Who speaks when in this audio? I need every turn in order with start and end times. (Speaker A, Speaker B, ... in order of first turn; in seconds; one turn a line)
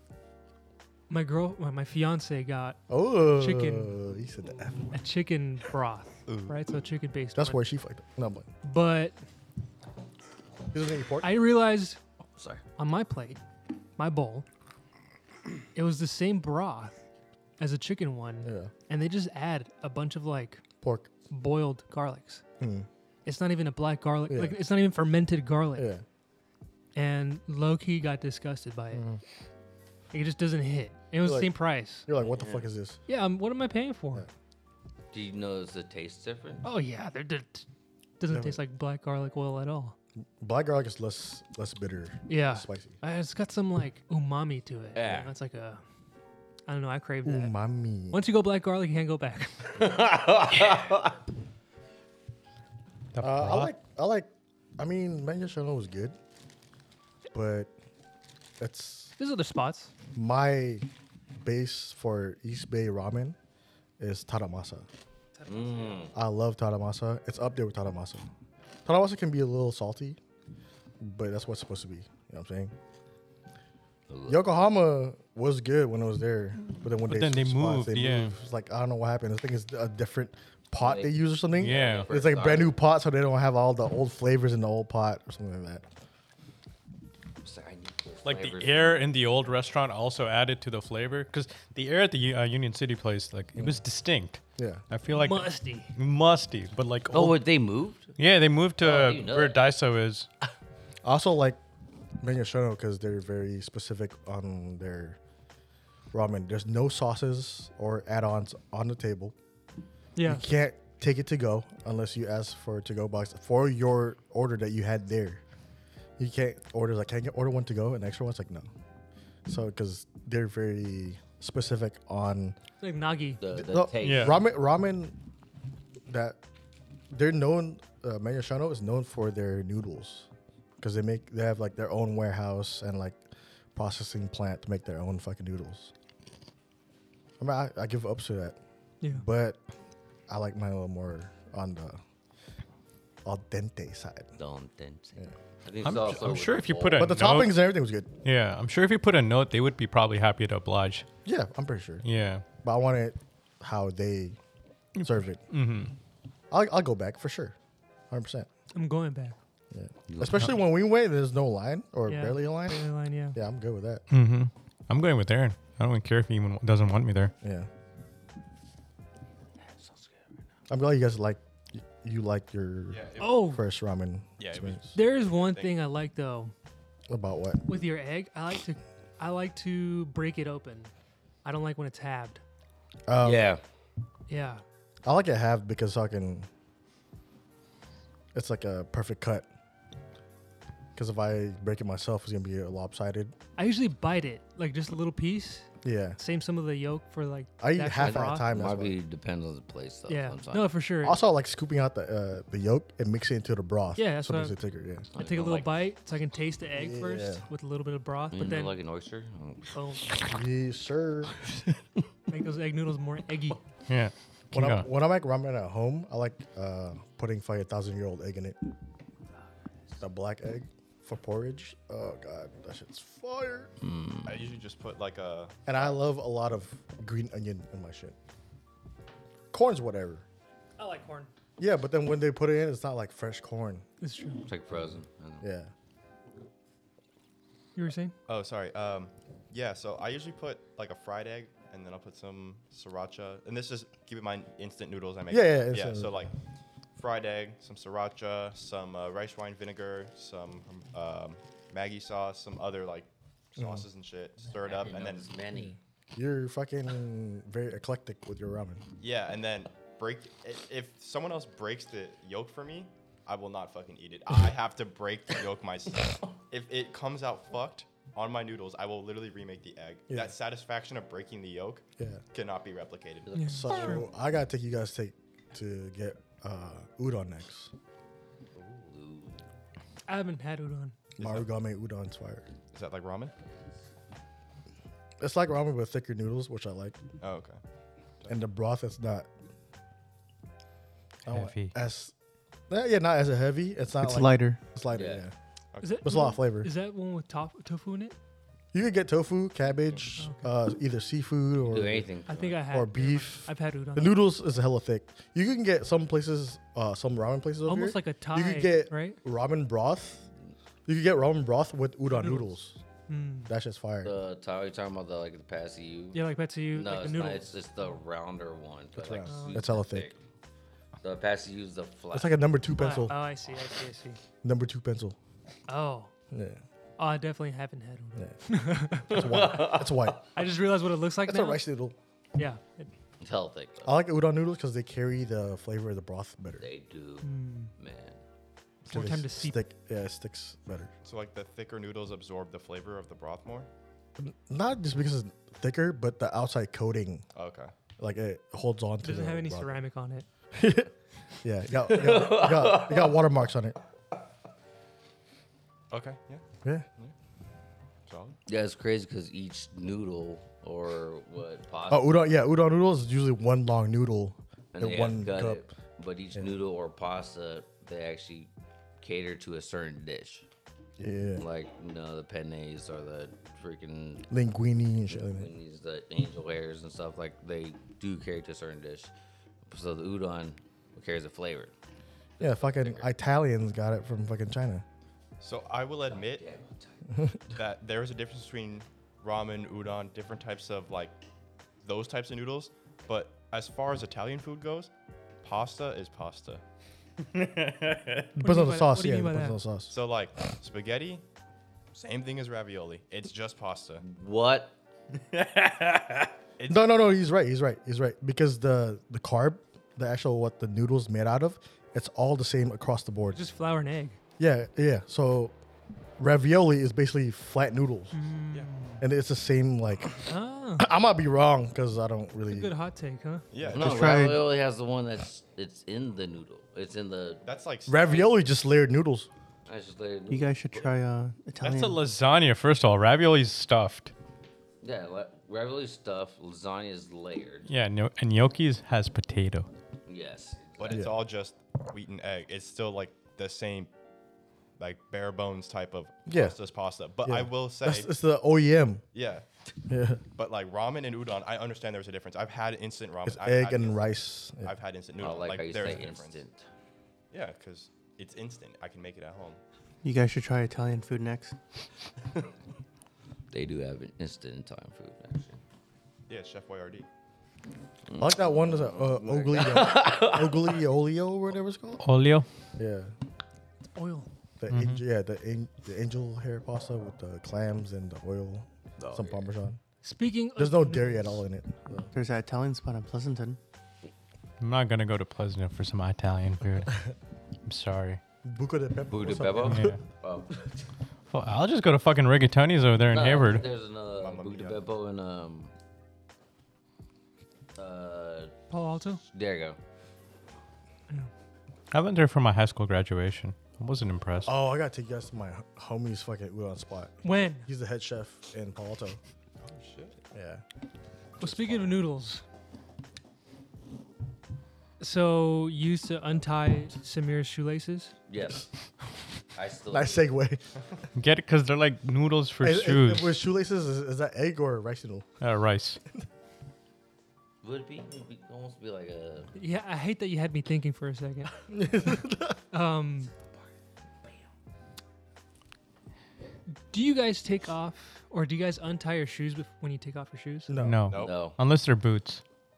Speaker A: 1.1-4.0
Speaker B: 2.9-4.9
Speaker A: 4.9-7.7
Speaker C: 6.3-6.6
Speaker B: 7.3-8.5
Speaker A: 8.6-9.2
Speaker B: 10.7-11.4
Speaker A: 11.2-12.0
Speaker D: 12.4-12.6
Speaker A: 12.8-13.4
Speaker A: 14.0-14.5
Speaker A: 15.8-17.0
Speaker A: 17.6-20.6
Speaker B: 18.4-18.7
Speaker B: 20.8-21.1
Speaker A: 21.3-22.4
Speaker B: 22.6-22.9
Speaker A: 23.2-25.9
Speaker B: 24.3-24.6
Speaker B: 25.8-26.0
Speaker A: 26.9-29.1
Speaker B: 28.9-29.2
Speaker A: 30.1-32.1
Speaker B: 31.2-31.5
Speaker B: 32.0-33.0
Speaker D: 32.3-32.6
Speaker A: 33.1-34.3
Speaker D: 35.1-36.6
Speaker A: 36.6-37.7
Speaker A: 38.2-40.0
Speaker B: 38.3-38.6
Speaker B: 40.4-43.0
Speaker A: 42.3-45.8
Speaker D: 45.0-45.3
Speaker A: 46.7-47.5
Speaker B: 47.2-48.2
Speaker A: 48.1-49.7
Speaker D: 49.8-51.1
Speaker E: 53.1-53.7
Speaker B: 53.2-56.2
Speaker B: 57.3-57.7
Speaker B: 58.6-59.1
Speaker A: 59.2-59.9
Speaker B: 60.1-60.9
Speaker B: 61.4-63.4
Speaker B: 64.0-64.9
Speaker A: 65.3-66.1
Speaker D: 65.5-66.1
Speaker B: 66.1-68.3
Speaker B: 68.8-70.2
Speaker B: 71.0-72.7
Speaker D: 74.1-74.5
Speaker B: 74.3-85.8
Speaker E: 77.0-78.3
Speaker D: 80.8-82.8
Speaker E: 81.6-82.1
Speaker D: 87.4-89.0
Speaker E: 88.2-97.4
Speaker B: 94.6-94.8
Speaker A: 95.1-95.9
Speaker D: 97.1-98.2
Speaker E: 98.2-100.3
Speaker D: 98.8-99.7
Speaker B: 101.0-101.6
Speaker B: 102.2-105.2
Speaker B: 106.1-109.3
Speaker A: 110.2-110.5
Speaker B: 110.2-115.4
Speaker B: 116.2-118.7
Speaker B: 119.5-122.6
Speaker A: 122.8-123.4
Speaker D: 123.4-124.4
Speaker B: 123.5-125.2
Speaker E: 124.0-124.4
Speaker B: 126.1-126.4
Speaker B: 127.1-130.3
Speaker B: 130.8-133.2
Speaker B: 133.8-135.9
Speaker B: 137.4-138.6
Speaker A: 139.0-139.3
Speaker B: 139.1-139.6
Speaker B: 140.3-142.0
Speaker B: 143.2-144.3
Speaker D: 144.4-147.2
Speaker E: 145.8-147.6
Speaker B: 146.9-148.1
Speaker E: 148.2-151.1
Speaker B: 151.2-152.0
Speaker E: 152.0-152.4
Speaker B: 152.6-154.4
Speaker E: 155.0-155.9
Speaker B: 155.0-155.4
Speaker B: 156.5-157.6
Speaker B: 158.1-158.5
Speaker A: 158.7-159.4
Speaker B: 159.7-162.8
Speaker D: 160.1-160.4
Speaker A: 162.1-163.4
Speaker B: 163.3-164.0
Speaker E: 164.1-167.3
Speaker B: 167.4-167.7
Speaker D: 169.7-170.1
Speaker B: 170.7-175.0
Speaker C: 172.9-173.4
Speaker A: 173.2-173.6
Speaker C: 174.4-175.8
Speaker A: 174.9-176.5
Speaker B: 177.1-177.6
Speaker A: 177.7-180.9
Speaker A: 181.4-182.4
Speaker B: 183.1-183.5
Speaker D: 183.2-183.6
Speaker A: 184.3-184.6
Speaker B: 185.0-186.5
Speaker B: 188.3-189.5
Speaker B: 190.9-193.3
Speaker A: 193.6-198.5
Speaker B: 195.8-196.2
Speaker B: 197.6-199.0
Speaker D: 198.0-200.7
Speaker A: 200.1-201.2
Speaker B: 201.0-205.1
Speaker A: 204.0-204.6
Speaker D: 205.1-205.8
Speaker A: 205.1-208.8
Speaker B: 206.7-207.4
Speaker D: 208.3-210.2
Speaker A: 209.7-210.1
Speaker B: 210.3-211.4
Speaker A: 212.3-213.6
Speaker E: 213.9-214.9
Speaker B: 214.5-218.6
Speaker B: 220.0-223.7
Speaker D: 223.8-224.5
Speaker C: 224.2-225.6
Speaker B: 225.7-228.2
Speaker B: 229.5-230.2
Speaker A: 230.8-231.3
Speaker B: 231.6-233.9
Speaker A: 234.0-234.4
Speaker D: 234.5-235.5
Speaker B: 235.4-235.7
Speaker A: 237.8-238.1
Speaker C: 238.3-246.3
Speaker B: 245.3-246.3
Speaker C: 247.0-255.3
Speaker B: 253.6-253.8
Speaker D: 254.5-255.8
Speaker B: 255.5-258.9
Speaker C: 259.0-273.3
Speaker D: 273.3-274.0
Speaker A: 273.3-274.1
Speaker B: 273.5-277.7
Speaker D: 278.6-279.4
Speaker A: 280.1-281.0
Speaker B: 281.2-282.5
Speaker C: 281.2-281.5
Speaker C: 282.7-283.3
Speaker B: 285.2-287.0
Speaker C: 287.2-287.6
Speaker B: 288.3-289.3
Speaker B: 291.3-292.1
Speaker E: 291.3-291.8
Speaker B: 292.7-295.3
Speaker F: 294.0-294.6
Speaker D: 294.9-295.2
Speaker C: 295.7-296.0
Speaker A: 295.8-298.2
Speaker B: 296.0-296.7
Speaker B: 298.7-302.1
Speaker A: 300.2-300.5
Speaker D: 301.7-302.6
Speaker A: 302.3-304.2
Speaker B: 302.7-310.2
Speaker A: 307.7-309.2
Speaker B: 310.9-312.8
Speaker A: 312.1-312.6
Speaker A: 313.1-313.5
Speaker B: 313.5-314.1
Speaker D: 314.0-320.2
Speaker A: 316.1-317.6
Speaker B: 318.9-320.1
Speaker A: 319.3-319.7
Speaker D: 321.0-322.4
Speaker B: 322.1-323.1
Speaker A: 322.8-324.2
Speaker B: 324.4-325.2
Speaker A: 325.7-326.1
Speaker B: 326.3-326.6
Speaker A: 327.0-329.8
Speaker B: 329.0-330.2
Speaker D: 329.1-330.1
Speaker A: 330.3-331.6
Speaker B: 331.2-331.9
Speaker A: 332.4-332.9
Speaker D: 333.2-334.0
Speaker B: 333.8-336.7
Speaker D: 336.6-338.2
Speaker A: 337.2-337.7
Speaker B: 338.9-340.9
Speaker A: 338.9-339.6
Speaker C: 341.0-343.7
Speaker B: 344.2-347.2
Speaker C: 347.4-347.7
Speaker B: 348.0-349.8
Speaker A: 349.0-350.3
Speaker B: 350.5-350.9
Speaker B: 351.4-353.8
Speaker D: 351.7-353.2
Speaker C: 355.9-356.4
Speaker C: 358.1-358.4
Speaker D: 358.5-362.2
Speaker B: 361.9-365.6
Speaker D: 364.8-368.5
Speaker D: 369.0-370.5
Speaker B: 371.0-371.4
Speaker D: 371.4-374.3
Speaker B: 374.3-375.5
Speaker D: 375.1-379.1
Speaker D: 379.7-381.7
Speaker D: 382.4-383.1
Speaker B: 382.4-384.9
Speaker C: 385.4-386.5
Speaker D: 386.1-387.1
Speaker B: 387.1-387.4
Speaker C: 387.5-391.2
Speaker C: 391.8-394.9
Speaker C: 395.4-396.6
Speaker E: 397.3-398.3
Speaker B: 398.4-399.9
Speaker A: 398.4-399.6
Speaker C: 399.9-401.2
Speaker C: 401.9-404.0
Speaker D: 404.0-404.8
Speaker D: 405.6-406.2
Speaker C: 406.6-406.9
Speaker B: 406.7-413.4
Speaker A: 413.3-414.2
Speaker B: 414.4-415.6
Speaker B: 416.2-418.1
Speaker A: 418.1-419.0
Speaker B: 419.0-420.2
Speaker A: 420.3-420.9
Speaker B: 420.8-422.7
Speaker A: 422.5-423.4
Speaker C: 423.5-424.0
Speaker B: 423.6-424.3
Speaker D: 423.7-427.4
Speaker F: 423.8-424.5
Speaker C: 427.4-428.4
Speaker B: 427.9-429.3
Speaker D: 429.7-431.0
Speaker F: 430.3-432.0
Speaker E: 431.6-434.1
Speaker D: 434.8-437.7
Speaker E: 437.7-439.7
Speaker D: 440.1-441.1
Speaker C: 440.8-443.9
Speaker B: 440.9-441.2
Speaker C: 444.8-448.1
Speaker B: 446.3-446.6
Speaker B: 447.2-449.0
Speaker C: 449.1-449.4
Speaker B: 449.9-450.2
Speaker C: 450.4-456.4
Speaker B: 453.3-454.7
Speaker D: 455.2-456.7
Speaker C: 457.3-459.6
Speaker F: 460.0-461.6
Speaker D: 463.5-465.6
Speaker C: 466.3-467.1
Speaker D: 468.1-470.8
Speaker B: 468.2-472.0
Speaker E: 472.0-472.5
Speaker B: 472.8-473.1
Speaker A: 473.9-474.3
Speaker B: 474.6-479.8
Speaker E: 474.7-475.0
Speaker D: 479.0-479.5
Speaker A: 480.0-481.4
Speaker B: 480.6-482.1
Speaker F: 482.1-483.6
Speaker E: 484.6-487.1
Speaker E: 487.7-488.2
Speaker B: 488.4-490.0
Speaker D: 489.1-490.6
Speaker E: 489.6-490.0
Speaker E: 491.3-493.7
Speaker D: 493.1-495.7
Speaker C: 494.1-494.8
Speaker D: 497.8-498.5
Speaker A: 498.7-499.2
Speaker D: 499.2-499.8
Speaker E: 501.9-504.5
Speaker B: 504.5-509.2
Speaker A: 507.2-507.7
Speaker C: 509.6-510.2
Speaker B: 510.3-510.6
Speaker A: 511.4-512.4
Speaker A: 515.0-518.1
Speaker D: 518.3-518.7
Speaker D: 519.5-520.3
Speaker B: 519.9-520.6
Speaker E: 521.2-523.3
Speaker B: 522.6-525.3
Speaker E: 525.4-526.0
Speaker D: 527.6-529.5
Speaker A: 529.5-531.7
Speaker B: 531.7-532.6
Speaker A: 532.7-533.3
Speaker A: 536.9-540.7
Speaker B: 540.7-541.1
Speaker E: 540.8-542.4
Speaker C: 541.1-541.4
Speaker D: 541.1-541.6